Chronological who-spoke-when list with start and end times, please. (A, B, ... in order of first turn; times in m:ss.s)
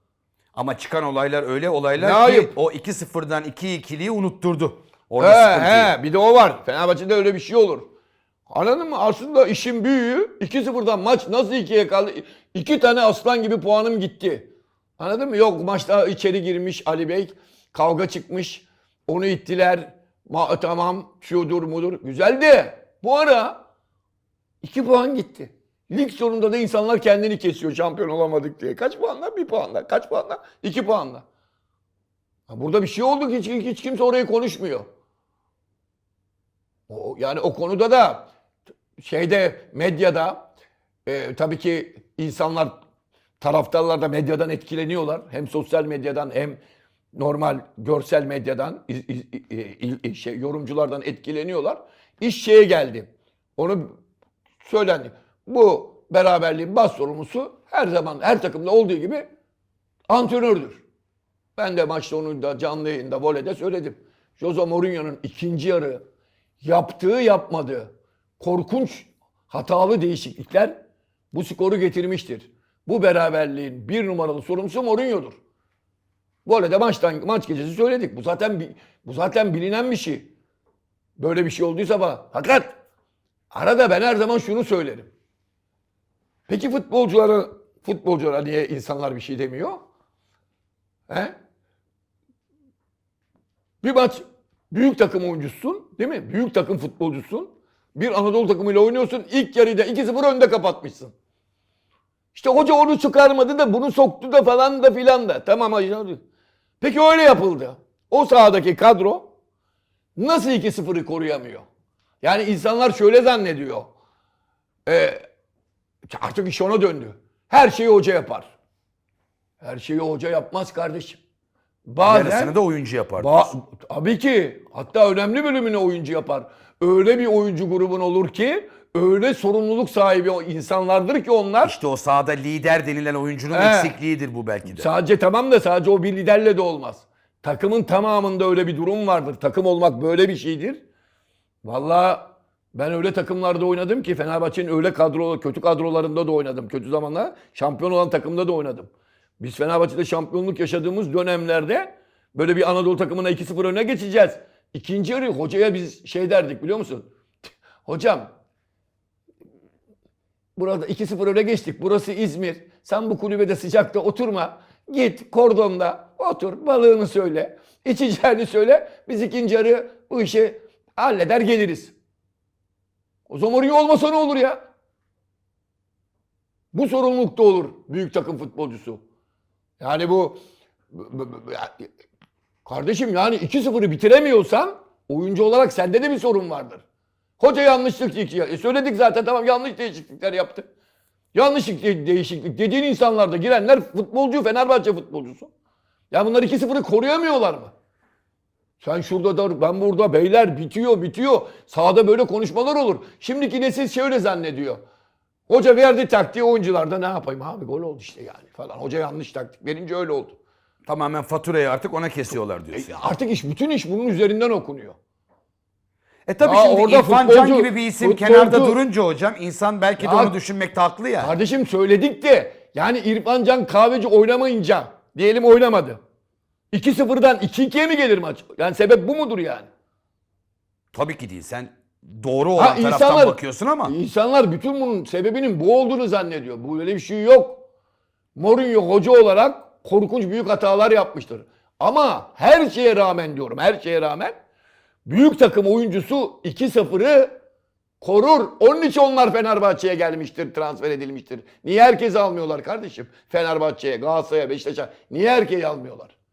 0:00.5-0:05.9 A
0:02.0-0:02.5 B
0:05.2-0:07.9 B
0:08.5-0:23.6 B
0:24.6-0:31.2 B
0:32.5-0:34.8 B
0:36.9-0:38.3 B
0:39.0-0:40.5 B
0:41.0-0:42.8 B
0:43.4-0:46.6 B
0:47.1-0:54.0 B
0:54.6-0:59.3 B
1:00.1-1:00.8 B
1:01.6-1:06.0 B
1:06.6-1:10.8 B
1:11.3-1:15.4 B
1:16.4-1:20.3 B
1:21.2-1:22.8 B
1:23.5-1:25.1 B
1:26.5-1:29.8 B
1:31.1-1:31.3 B
1:33.8-1:41.1 B
1:42.3-1:46.2 B
1:46.8-1:49.3 B
1:50.2-1:51.6 B
1:52.2-1:53.9 B
1:54.8-1:55.2 B
1:56.1-1:58.5 B
1:59.6-2:01.2 B
2:01.8-2:02.5 B
2:02.0-2:03.5 A
2:03.2-2:11.8 B
2:11.6-2:14.9 A
2:13.5-2:13.9 B
2:14.7-2:20.8 B
2:21.6-2:37.1 B
2:37.8-2:38.3 B
2:40.6-2:51.9 B
2:53.3-2:54.6 B
2:56.7-2:59.0 B
2:59.8-3:00.4 B
3:00.9-3:01.9 B
3:02.6-3:06.8 B
3:07.4-3:10.7 B
3:11.3-3:15.5 B
3:16.1-3:17.7 B
3:18.8-3:24.8 B
3:25.5-3:30.4 B
3:30.8-3:33.0 A
3:32.7-3:35.0 B
3:36.2-3:41.3 A
3:36.4-3:38.8 B
3:40.0-3:40.3 B
3:41.2-3:46.0 B
3:46.7-3:49.7 B
3:50.9-3:53.9 A
3:52.6-3:57.6 B
3:58.4-4:04.4 B
4:05.0-4:07.3 B
4:08.0-4:16.1 B